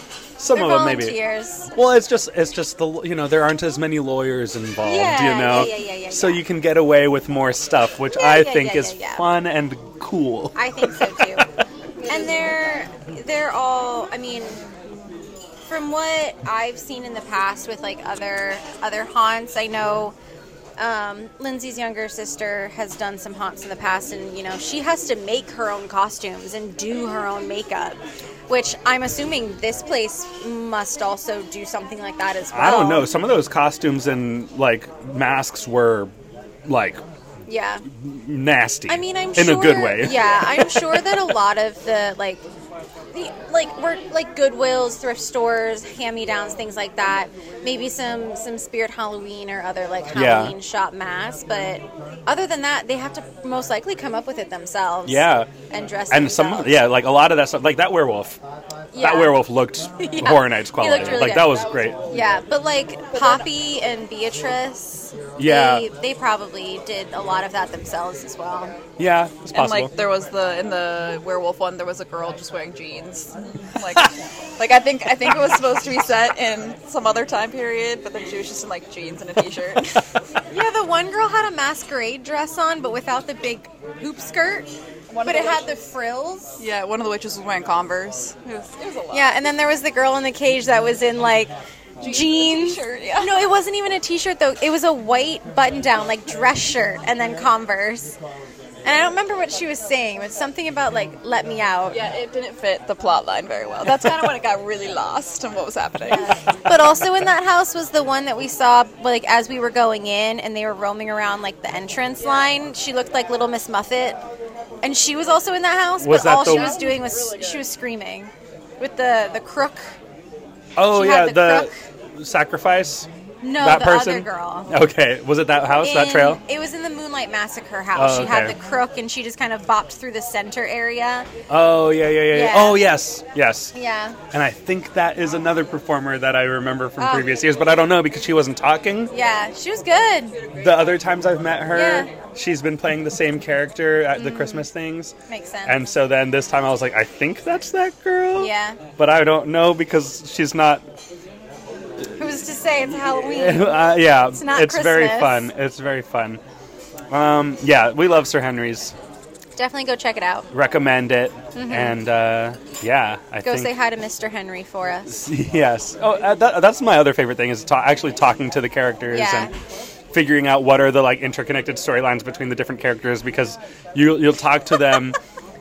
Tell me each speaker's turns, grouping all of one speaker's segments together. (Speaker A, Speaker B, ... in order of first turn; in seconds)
Speaker A: 0.4-1.2, 1.7-11.4, 32.5-36.1, 36.6-37.0, 37.9-41.1, 50.1-50.5, 55.0-55.5, 56.1-58.4, 59.0-62.0, 65.4-65.9, 69.0-69.9, 116.0-116.8, 120.8-123.1, 123.6-126.4, 127.9-128.6, 131.5-133.7, 134.3-139.1, 140.6-145.1, 145.7-150.8, 153.2-156.4, 157.1-158.9, 160.5-163.7, 165.1-169.5, 170.1-175.2
Speaker B: 0.5-1.7, 4.8-6.4, 8.1-9.2, 10.5-11.5, 12.0-14.6, 15.6-20.1, 20.8-28.0, 28.5-33.1, 37.5-37.8, 38.9-42.4, 43.1-56.8, 58.9-59.4, 60.0-68.7, 80.5-84.7, 85.2-86.6, 89.1-98.2, 98.8-102.0, 106.1-114.2, 114.8-119.9, 120.9-121.8, 123.4-124.7, 125.8-131.3, 132.3-132.9, 133.7-134.2, 137.0-137.3, 139.1-140.4, 141.7-142.1, 144.1-144.7, 145.3-145.8, 148.4-148.8, 152.2-155.5, 159.6-160.5, 161.5-162.0, 163.4-165.2, 169.1-169.5
Speaker C: 61.4-62.3, 63.1-63.5, 69.5-80.2, 85.1-85.8, 86.6-89.4, 92.0-93.5, 101.9-106.3, 116.2-117.7, 140.4-141.0